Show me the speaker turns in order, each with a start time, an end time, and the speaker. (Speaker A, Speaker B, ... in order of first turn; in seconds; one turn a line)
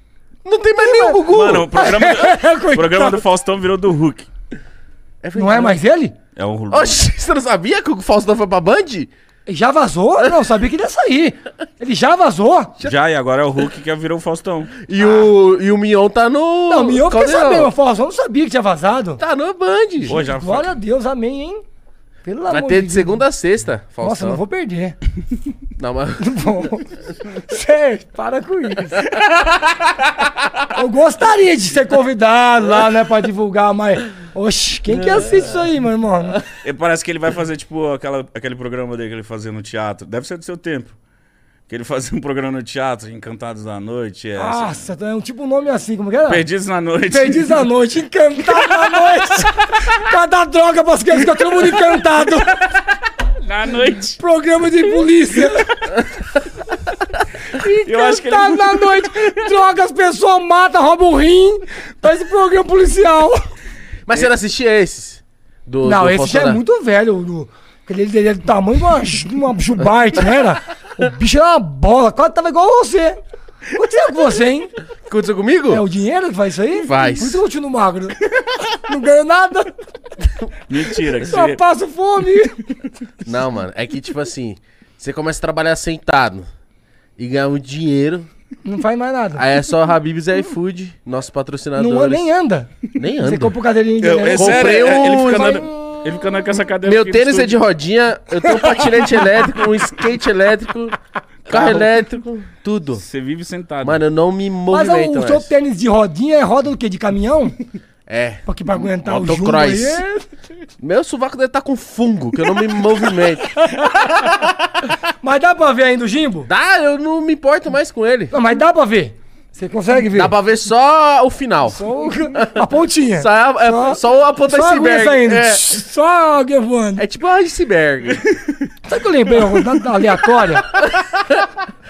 Speaker A: 0.5-1.9
Speaker B: 0.8-1.2
Speaker C: 1.3-4.3
Speaker B: 1.7-3.2
Speaker A: 5.2-5.8
Speaker B: 5.4-6.1
Speaker C: 6.4-7.0
Speaker A: 6.7-9.1
Speaker B: 9.5-12.8
Speaker C: 12.8-14.8
Speaker A: 14.8-17.7
Speaker B: 15.0-15.3
Speaker B: 16.7-19.2
Speaker A: 19.2-20.2
Speaker B: 20.1-21.6
Speaker C: 20.1-20.7
Speaker B: 22.2-23.3
Speaker A: 22.5-24.4
Speaker B: 24.0-24.9
Speaker A: 25.8-26.4
Speaker B: 26.2-29.1
Speaker B: 30.7-36.4
Speaker C: 36.5-41.0
Speaker C: 41.7-44.8
Speaker B: 44.4-46.5
Speaker C: 46.3-47.7
Speaker B: 47.1-52.7
Speaker C: 48.6-49.0
Speaker C: 53.4-54.2
Speaker B: 54.2-56.0
Speaker B: 57.5-63.4
Speaker C: 57.7-59.5
Speaker A: 64.0-66.6
Speaker B: 65.8-73.2
Speaker B: 73.7-74.7
Speaker A: 75.1-75.8
Speaker B: 75.7-80.4
Speaker A: 76.8-77.4
Speaker C: 80.7-81.6
Speaker B: 81.2-82.7
Speaker A: 83.2-86.5
Speaker A: 87.2-88.3
Speaker B: 88.6-89.4
Speaker A: 89.4-92.3
Speaker B: 91.8-95.9
Speaker A: 93.0-93.5
Speaker C: 94.0-97.6
Speaker A: 94.3-95.7
Speaker A: 96.8-101.0
Speaker B: 98.5-99.2
Speaker C: 101.5-101.9
Speaker A: 101.5-103.0
Speaker C: 103.0-104.0
Speaker A: 103.8-105.5
Speaker B: 104.7-107.5
Speaker A: 108.1-110.0
Speaker B: 108.5-110.3
Speaker A: 110.8-114.5
Speaker B: 113.6-114.1
Speaker B: 115.2-116.5
Speaker A: 116.5-118.3
Speaker B: 118.3-120.3
Speaker A: 120.1-125.6
Speaker B: 121.7-127.0
Speaker A: 127.0-128.2
Speaker C: 128.3-128.6
Speaker B: 128.8-130.8